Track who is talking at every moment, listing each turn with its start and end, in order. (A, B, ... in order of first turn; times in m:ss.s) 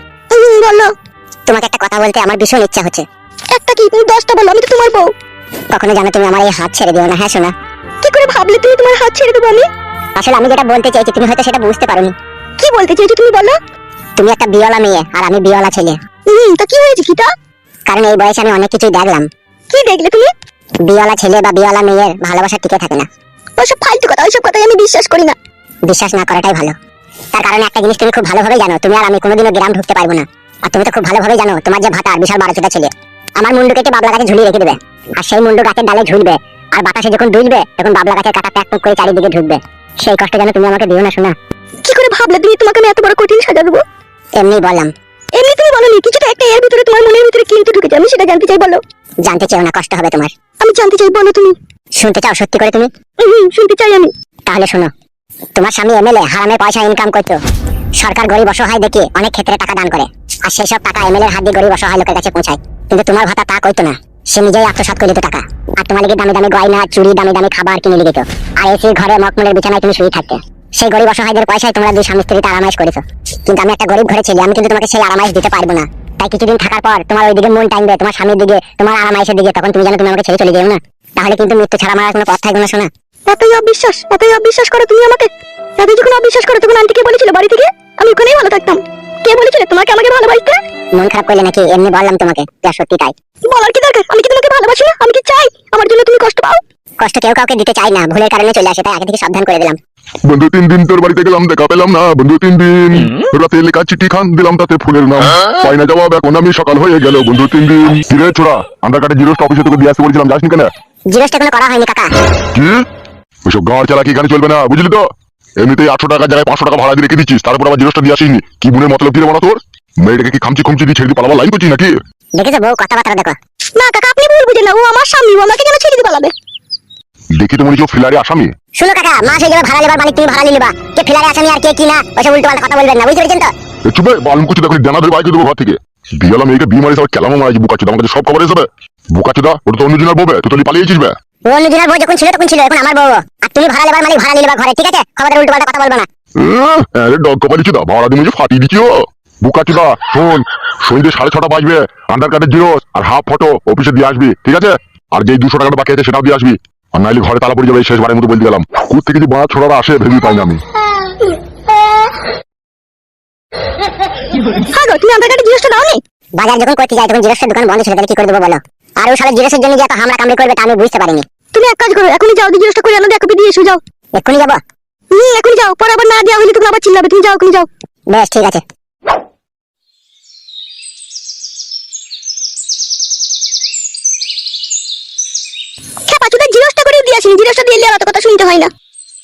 0:00.3-0:00.9 A
0:01.5-0:03.1 B
0:03.5-0:05.1 A
0:05.7-0:07.5 B
0:08.0-0:09.7 A
0:10.2-0:12.1 B
0:12.6-0:13.6 A
0:14.2-0:16.0 B
0:16.3-0:17.3 A
0:17.9-0:19.3 B
0:19.7-0:20.3 A
0:20.8-0:23.1 B
0:23.6-0:25.4 A
0:25.9-0:26.8 B
0:27.3-0:41.4 B
0:41.8-0:43.8 A
0:44.4-0:44.9 B
0:45.4-0:48.8 A
0:49.2-0:50.3 B
0:50.6-0:51.6 A
0:52.0-0:52.9 B
0:53.2-0:54.1 A
0:54.5-0:54.9 B
0:55.6-0:57.4 B
0:58.0-1:22.9 B
1:23.3-1:30.6 A
1:30.9-1:33.1 B
1:33.5-1:36.6 A
1:37.0-1:39.8 B
1:40.3-1:50.7 C
1:51.1-1:52.1 B
1:52.5-1:52.8 C
1:53.4-1:55.1 C
1:55.6-2:01.9 C
2:02.4-2:03.4 B
2:03.8-2:06.3 A
2:07.4-2:08.5 C
2:08.8-2:13.5 B
2:13.9-2:21.1 C
2:21.5-2:26.1 B
2:26.4-2:40.6 C
2:44.7-2:46.0 A
2:46.4-2:51.2 B
2:51.5-2:53.8 A
2:54.2-2:54.6 B
2:55.1-2:57.7 A
2:58.1-2:58.6 B
3:06.1-3:08.7 A